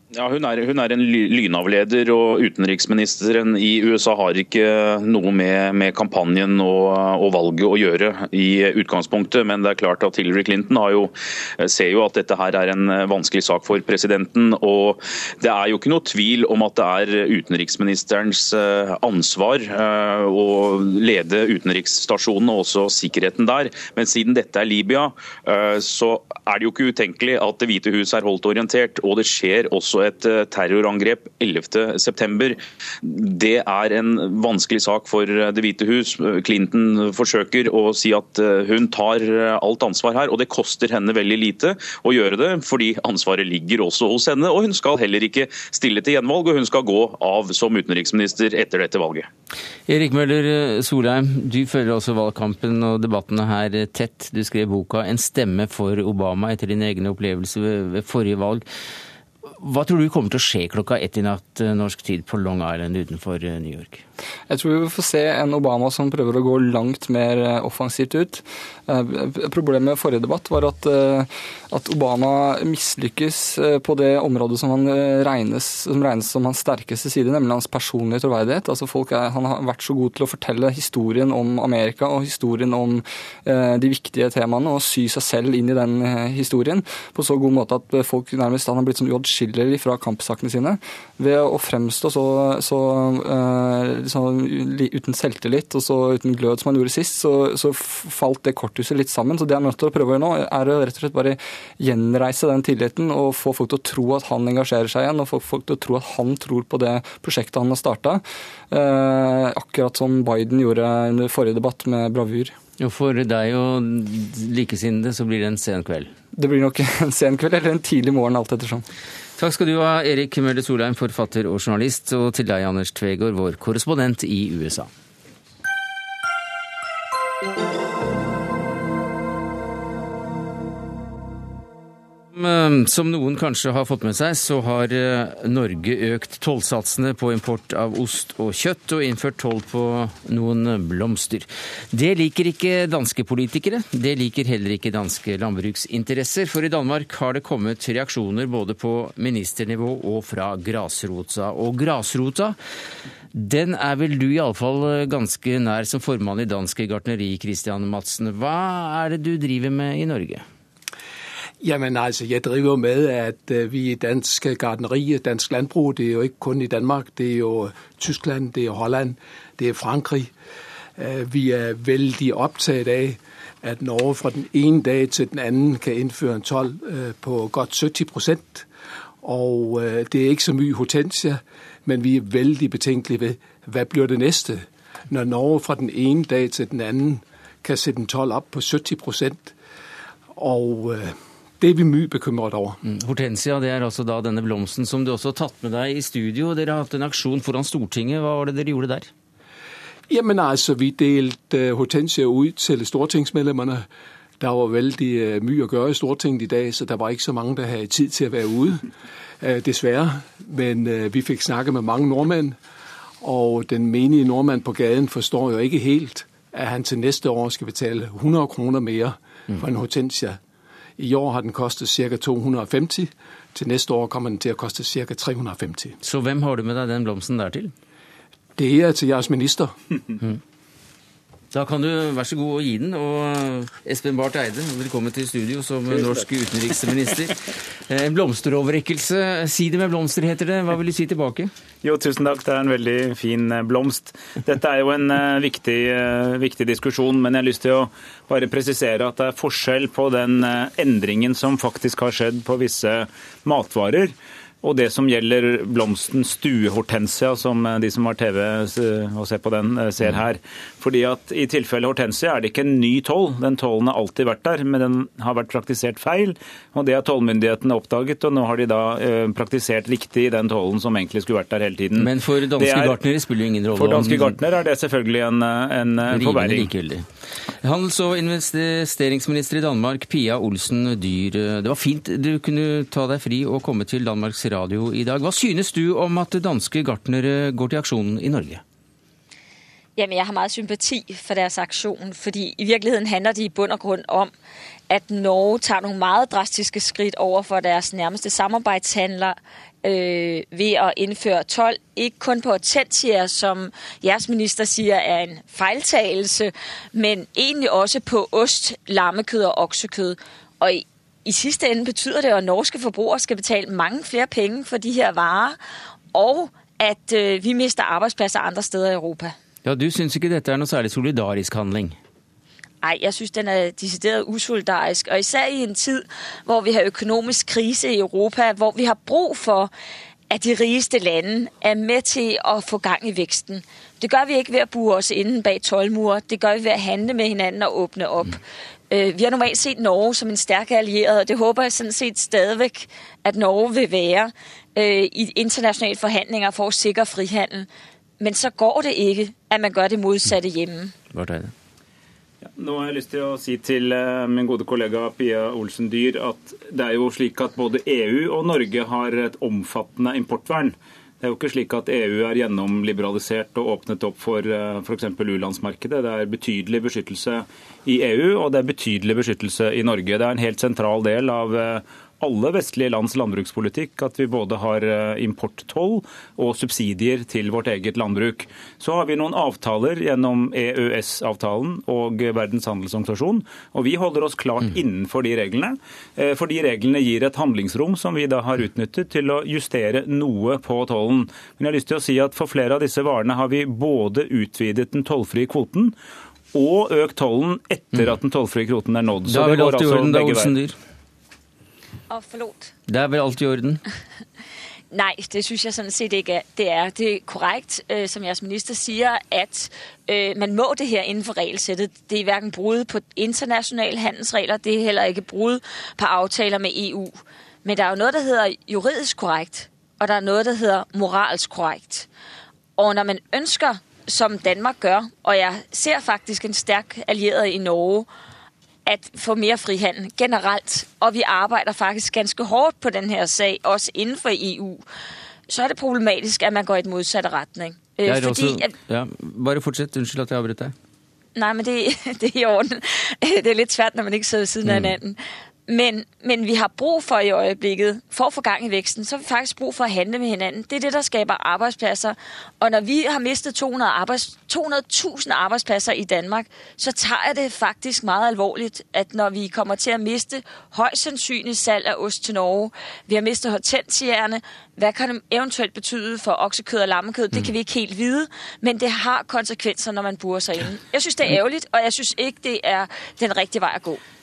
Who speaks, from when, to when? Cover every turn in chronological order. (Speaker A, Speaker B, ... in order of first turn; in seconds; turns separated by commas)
Speaker A: 0.1-49.3, Speaker B: 49.9-58.6, Speaker B: 59.5-64.0, Speaker C: 64.5-112.6, Speaker B: 112.8-116.1, Speaker C: 116.3-118.8, Speaker B: 119.4-124.9, Speaker B: 132.3-152.6, Speaker B: 153.3-160.4, Speaker D: 161.6-170.3, Speaker D: 171.0-178.7, Speaker D: 179.2-189.5, Speaker D: 190.3-192.8, Speaker B: 192.8-199.1, Speaker D: 200.1-203.9, Speaker D: 204.4-208.9, Speaker D: 209.4-212.6, Speaker D: 213.2-220.4, Speaker D: 221.0-226.0, Speaker B: 226.0-227.7, Speaker D: 228.6-229.7, Speaker B: 231.5-241.5, Speaker E: 241.8-273.0, Speaker B: 272.0-274.4, Speaker E: 273.8-276.7, Speaker B: 276.1-277.1, Speaker B: 277.6-288.6, Speaker F: 290.0-294.3, Speaker F: 294.9-315.6, Speaker F: 316.1-319.4, Speaker B: 319.6-322.0, Speaker F: 322.8-329.7, Speaker F: 330.3-338.4, Speaker F: 338.9-347.7, Speaker F: 348.2-350.9, Speaker B: 351.1-351.5, Speaker E: 352.4-395.9, Speaker E: 396.5-400.6, Speaker B: 399.3-400.7, Speaker F: 402.1-402.7, Speaker B: 402.9-403.8, Speaker F: 404.9-422.1, Speaker F: 422.8-428.1, Speaker F: 428.9-434.8, Speaker F: 435.5-438.7, Speaker B: 438.1-440.7, Speaker F: 441.4-474.0, Speaker B: 444.6-444.9